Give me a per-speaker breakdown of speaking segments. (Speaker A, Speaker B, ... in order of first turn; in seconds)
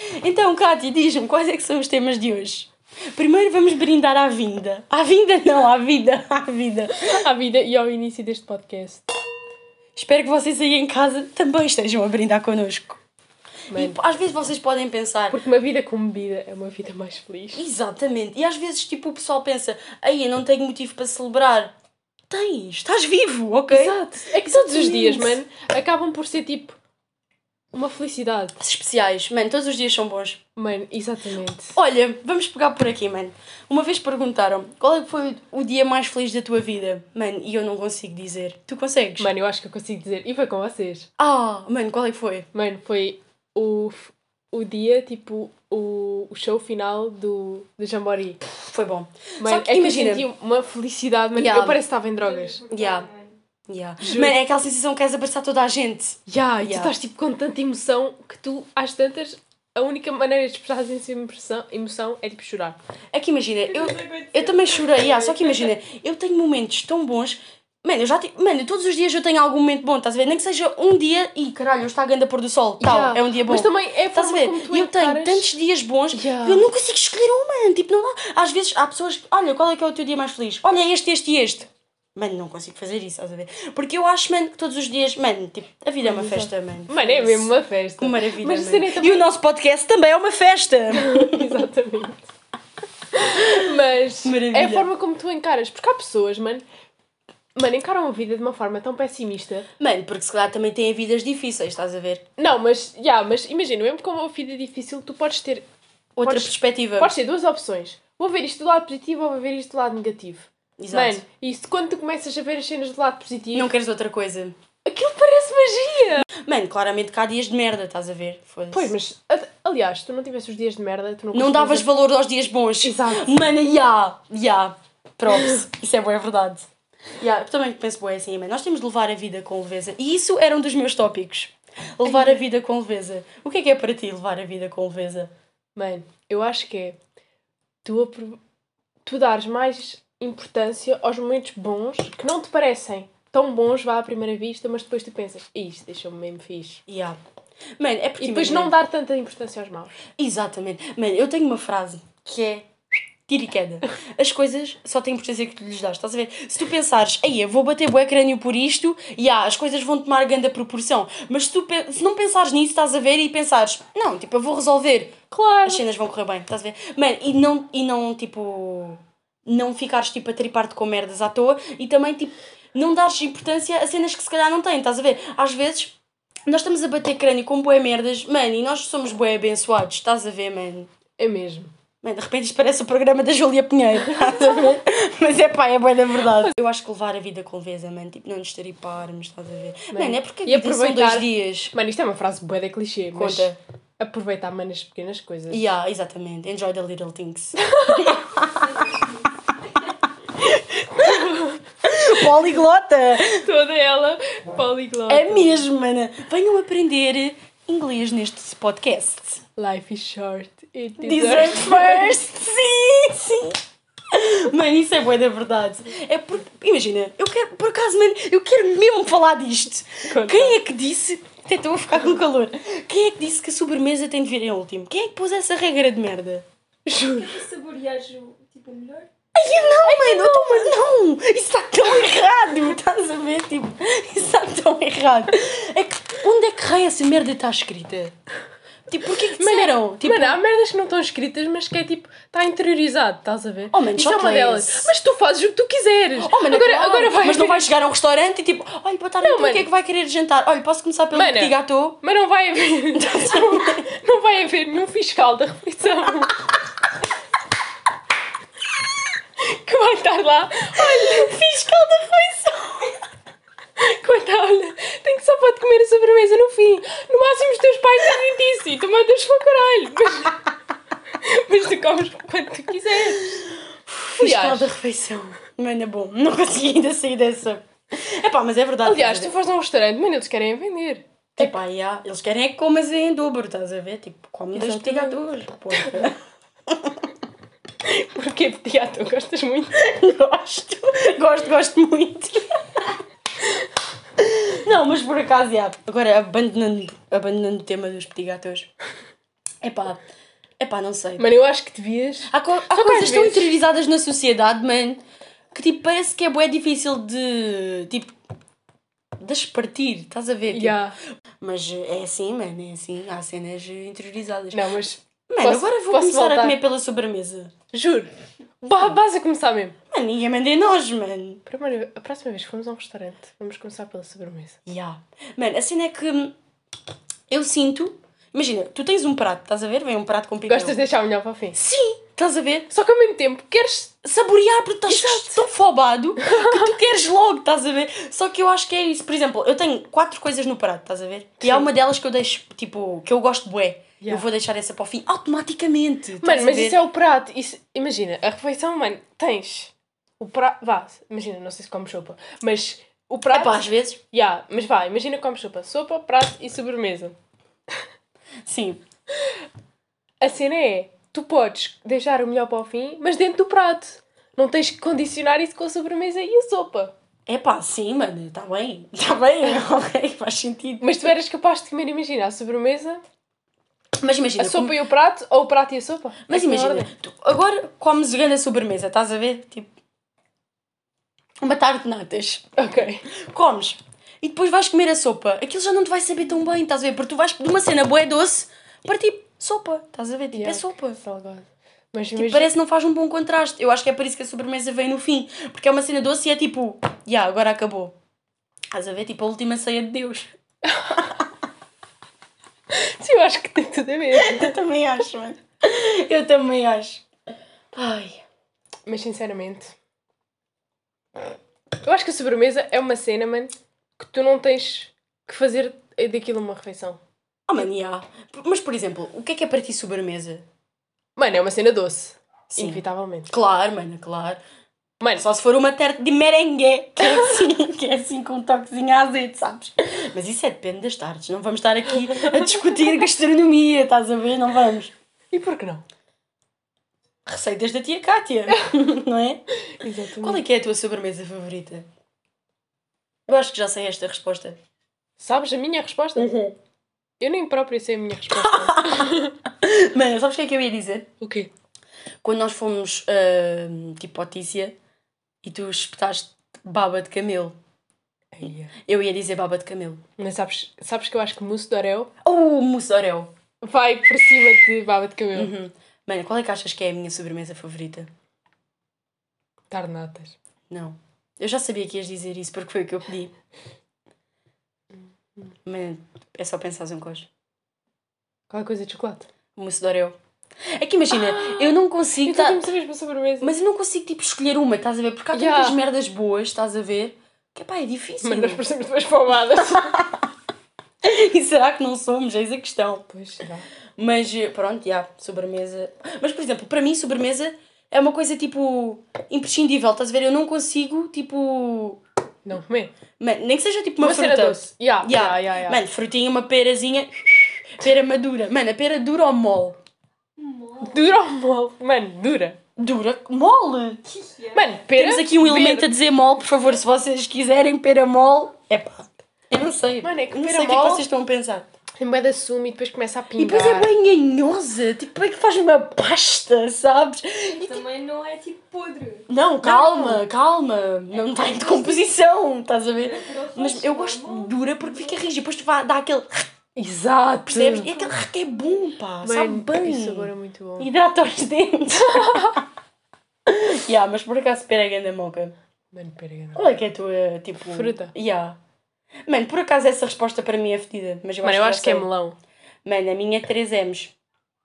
Speaker A: 0.2-7.2, 9.9-13.0, 13.7-15.4, 17.5-21.7, 22.3-25.4, 28.6-30.4, 31.7-39.3, 41.2-42.5, 48.4-50.3, 51.4-51.8, 52.7-53.1, 53.7-56.9, 63.1-91.5, 93.2-93.7, 94.2-94.9, 99.8-102.2, 106.2-107.1, 110.8-111.2, 113.5-114.5, 116.3-118.9, 121.3-126.7, 127.2-135.3, 146.9-147.2, 147.8-148.7, 150.2-152.7, 153.2-175.9, 176.5-180.9, 182.0-191.7, 193.1-193.6, 195.5-198.8, 200.8-201.0, 201.8-203.4, 205.1-209.4, 211.0-213.6, 214.1-226.4, 229.3-238.1, 238.9-240.4, 243.7-244.9, 246.2-252.0, 253.0-253.8, 261.0-262.8, 273.5-279.3, 281.4-286.9, 289.7-292.9, 294.2-298.7, 299.6-300.0, 300.6-301.3, 302.3-308.1, 309.2-310.8, 311.4-314.7, 315.3-317.5, 319.9-321.4, 324.6-326.3, 327.3-330.8, 331.5-332.7, 334.0-346.8, 353.3-354.0, 358.4-358.8, 367.3-371.1, 374.0-374.8, 376.3-379.7, 381.4-382.5, 383.1-391.0, 392.1-397.9, 398.7-400.3, 404.1-407.0, 407.7-408.2, 417.5-420.4, 422.5-424.4, 425.1-434.9, 437.2-439.4, 440.2-441.9, 443.3-444.6, 446.1-446.5, 448.3-451.1, 452.2-454.8, 455.4-457.6, 458.8-460.0, 462.2-463.3, 465.3-468.1, 470.7-473.3, 475.6-477.3, 479.6-480.2, 480.7-482.6, 483.4-488.6, 489.8-490.2, 491.0-493.1, 494.0-502.0, 503.2-509.8, 512.8-514.0, 514.9-521.7, 523.4-527.8, 529.3-536.5, 537.5-542.6, 543.5-545.5, 546.5-548.6, 549.3-552.1, 552.8-554.1
Speaker B: 6.9-9.1, 13.7-14.0, 15.3-17.6, 23.7-26.8, 27.7-28.6, 30.6-31.7, 39.2-41.1, 42.5-48.4, 49.4-52.6, 54.0-54.4, 56.3-62.8, 72.8-75.5, 76.1-76.7, 86.0-89.2, 90.9-92.3, 93.1-96.6, 97.5-99.7, 102.4-105.7, 106.2-113.7, 114.8-116.3, 118.7-121.8, 122.8-123.3, 125.3-125.6, 132.0-132.4, 135.7-137.0, 137.8-138.4, 139.0-146.8, 148.2-150.0, 165.3-165.8, 181.2-181.7, 184.1-184.7, 189.9-195.7, 197.6-198.2, 200.6-202.3, 203.2-205.6, 209.6-212.2, 220.1-220.6, 226.8-227.4, 229.8-230.8, 239.2-247.7, 249.2-249.7, 251.1-256.4, 259.4-262.5, 263.8-270.4, 271.1-273.4, 274.2-274.7, 278.8-281.6, 284.5-285.2, 285.7-286.1, 287.8-289.7, 301.2-303.5, 310.5-311.0, 314.5-316.6, 317.7-319.8, 321.5-324.6, 330.5-331.6, 332.7-334.0, 334.9-335.5, 336.2-336.8, 341.4-341.7, 344.0-344.2, 346.2-357.1, 360.2-366.9, 370.8-373.0, 374.4-376.9, 382.6-383.0, 390.3-392.5, 400.7-401.1, 402.7-404.6, 408.9-409.7, 411.8-417.0, 421.1-423.3, 432.1-432.5, 435.3-435.8, 439.7-440.4, 445.2-446.4, 447.2-449.3, 451.2-451.5, 458.3-458.7, 460.2-462.1, 463.6-465.5, 469.7-470.3, 478.5-479.3, 481.1-483.5, 485.3-485.8, 488.2-490.0, 493.1-493.6, 502.4-502.9, 504.0-505.8, 510.8-512.6, 514.5-515.9, 520.0-521.1, 522.0-523.9, 529.6-530.2, 536.8-537.9, 539.2-540.9, 542.0-542.6, 545.9-546.6, 547.7-548.1, 551.4-552.4
Speaker C: 52.2-53.3, 63.8-65.7, 227.1-229.1, 510.4-511.1, 514.1-514.7, 527.5-529.2, 531.5-531.9, 533.0-535.0